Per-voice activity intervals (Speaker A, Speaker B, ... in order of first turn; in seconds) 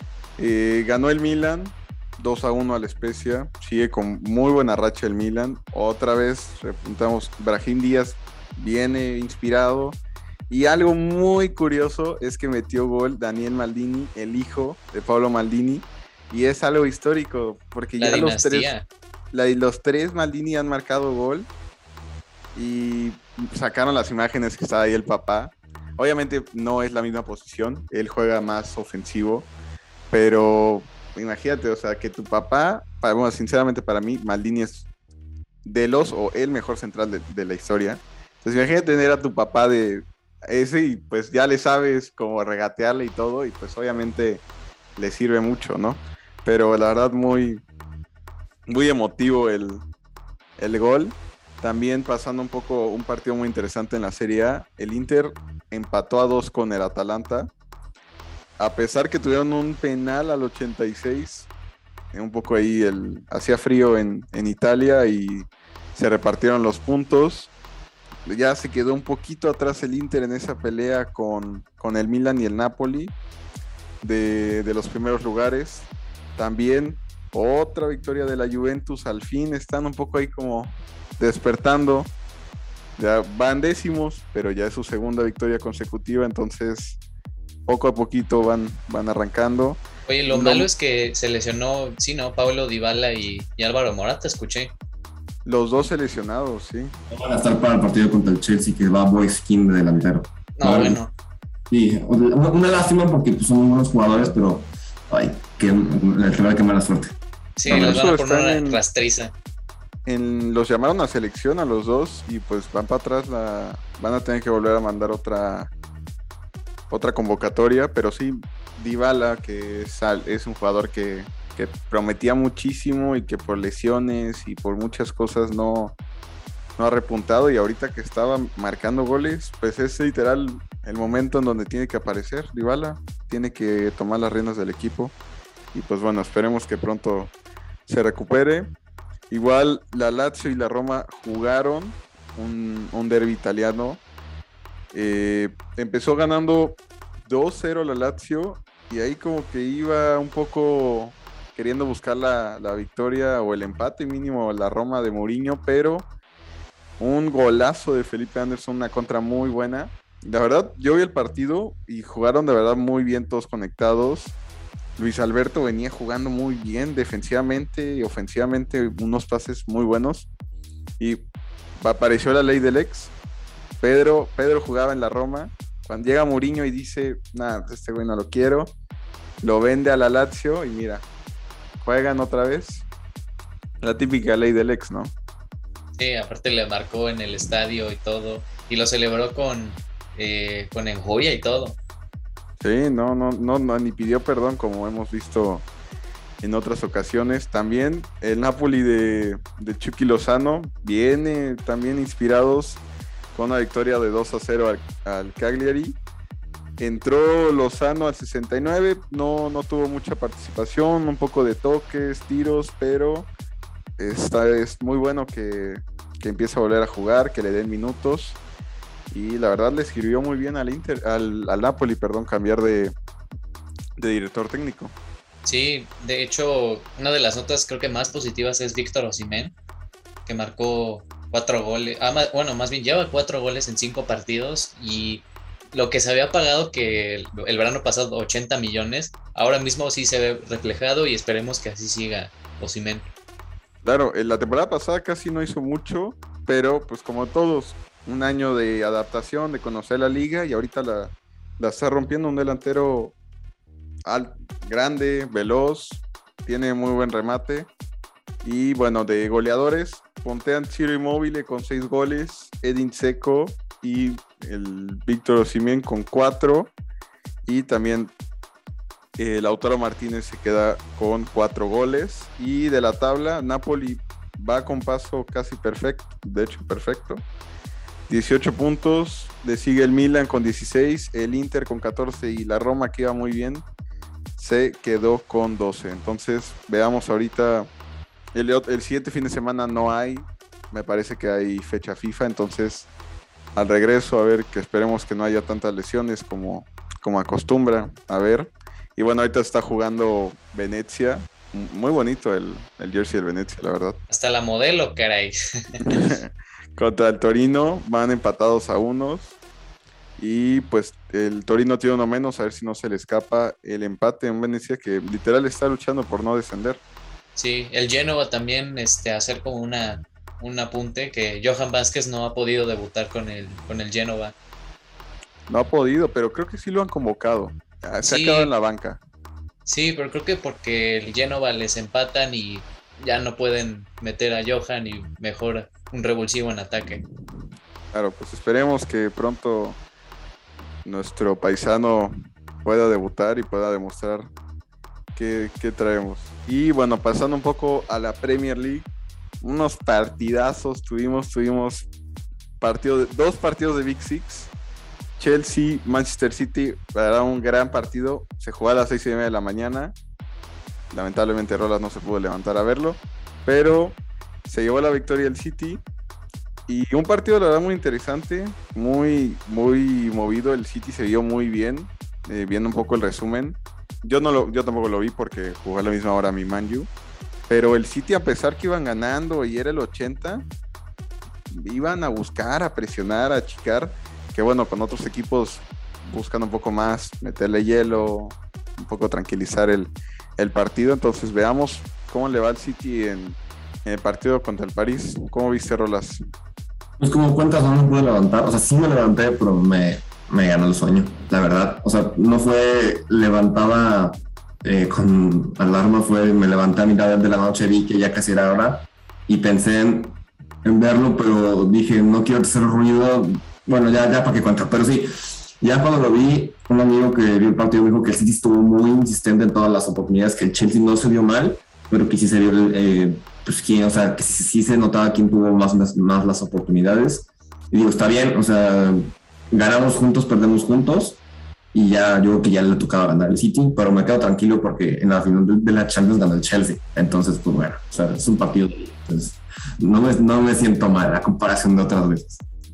Speaker A: 0.4-18.7, 19.3-21.5, 22.6-29.5, 30.1-34.9, 35.6-44.4, 45.0-47.6, 48.7-49.8, 50.6-57.5, 58.6-61.5, 62.1-67.5, 68.3-73.2, 74.0-82.1, 83.0-87.0, 87.7-90.7, 95.5-96.9, 107.7-108.8, 110.1-115.7, 116.9-126.0, 126.8-135.2, 135.7-137.3, 137.9-138.7, 139.3-144.0, 144.9-156.1, 157.0-164.3, 165.0-170.3, 171.8-173.1, 173.8-178.7, 179.4-181.1, 181.8-182.9, 183.8-185.1, 192.6-195.7, 196.4-202.8, 203.3-206.0, 206.8-213.3, 214.0-218.4, 219.1-222.9, 224.0-224.9, 243.8-253.2, 254.1-257.7, 258.4-266.7, 267.5-268.1, 269.2-277.2, 278.1-283.6, 284.4-287.7, 288.3-292.9, 293.6-304.0, 305.8-309.3, 310.2-316.8, 325.5-329.0, 337.9-339.8, 340.9-344.3, 345.1-348.9, 349.4-351.9, 352.6-354.5, 355.2-360.0, 360.9-365.8, 366.7-376.9, 377.5-380.4, 381.5-396.2
Speaker B: 18.0-18.9, 90.1-94.7, 100.6-101.1, 107.6-109.3, 186.0-191.8, 225.4-229.6, 230.3-243.1, 304.1-306.0, 317.4-324.4, 328.0-328.5, 329.7-337.0
Speaker C: 97.1-101.0, 101.7-107.2, 107.7-108.0, 397.0-431.2, 431.7-442.4